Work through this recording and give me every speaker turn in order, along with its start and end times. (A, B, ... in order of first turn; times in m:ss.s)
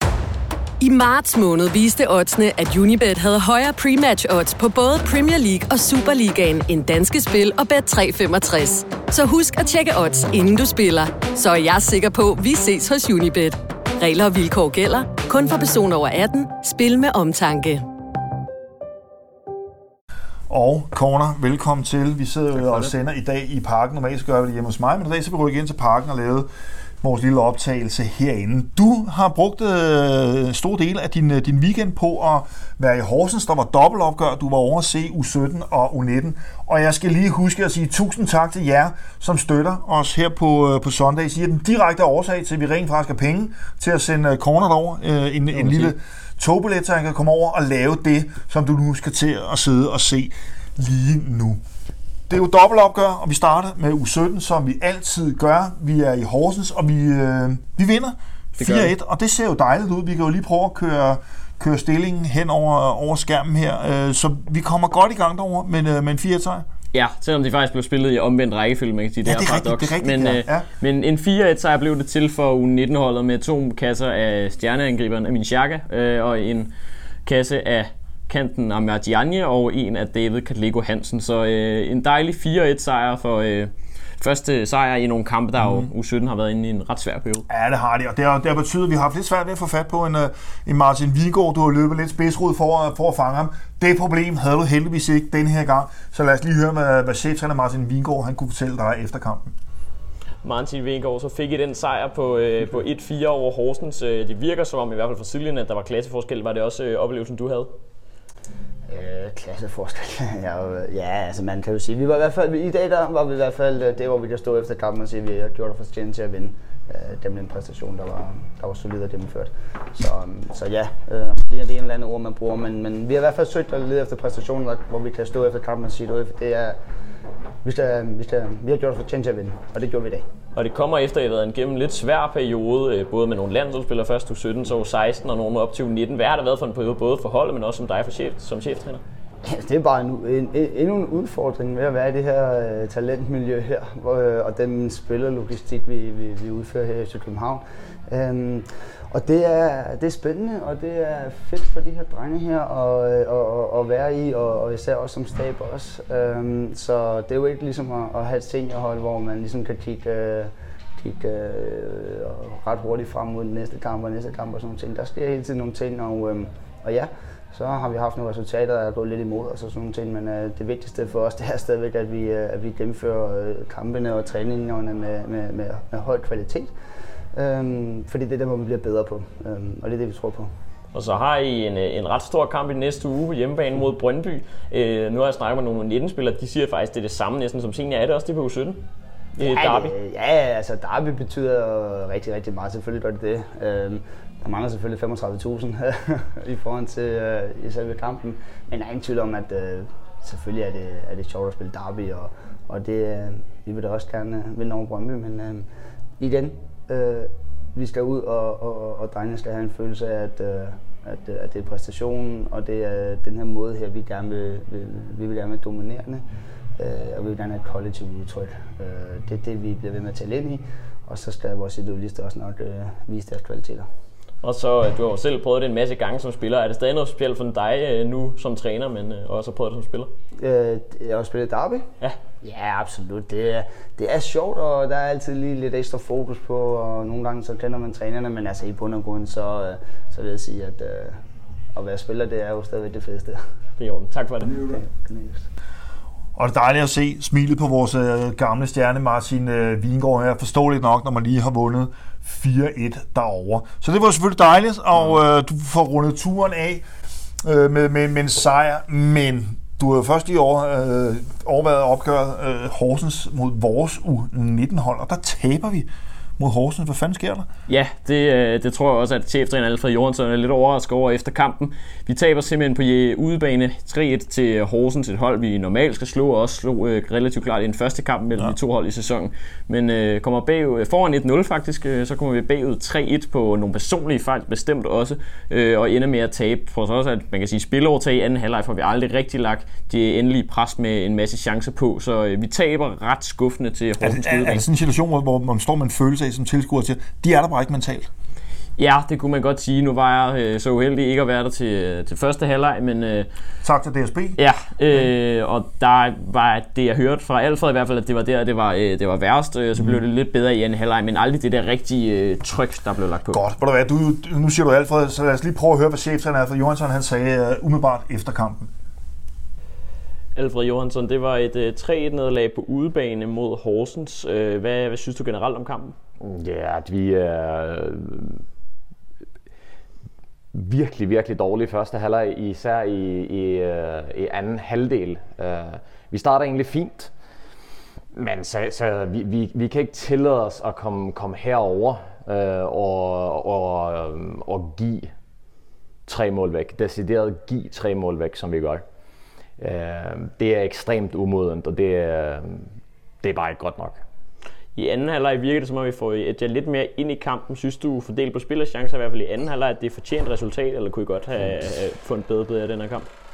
0:00.8-0:17.8 A
0:20.5-0:26.5 B
0:27.0-0:51.6 B
0:52.3-1:06.6 B
0:58.6-0:58.9 C
1:06.9-1:16.7 C
1:09.2-1:10.7 B
1:17.2-1:27.4 C
1:27.5-1:39.5 B
1:40.4-1:47.7 C
1:48.9-2:06.8 D
2:07.6-2:10.2 D
2:10.6-2:19.0 C
2:19.4-2:56.7 D
2:57.3-3:00.5 D
3:00.9-3:08.8 C
3:09.4-3:09.9 C
3:09.4-3:25.7 D
3:26.2-3:36.2 D
3:36.8-3:43.9 D
3:44.4-3:50.1 C
3:50.4-3:51.9 D
3:52.4-4:01.2 D
4:01.7-4:03.4 D
4:03.8-4:04.6 C
4:04.6-4:05.5 D
4:06.4-4:16.8 B
4:17.4-4:27.5 B
4:27.7-4:54.6 C
4:54.0-4:58.1 B
4:58.8-5:03.3 C
5:03.6-5:04.4 B
5:04.4-5:13.4 C
5:13.3-5:18.7 B
5:20.4-5:25.9 C
5:26.2-5:28.4 E
5:30.5-5:37.1 E
5:38.1-5:45.1 E
5:46.0-5:48.8 E
5:49.6-5:54.0 E
5:54.8-6:03.0 C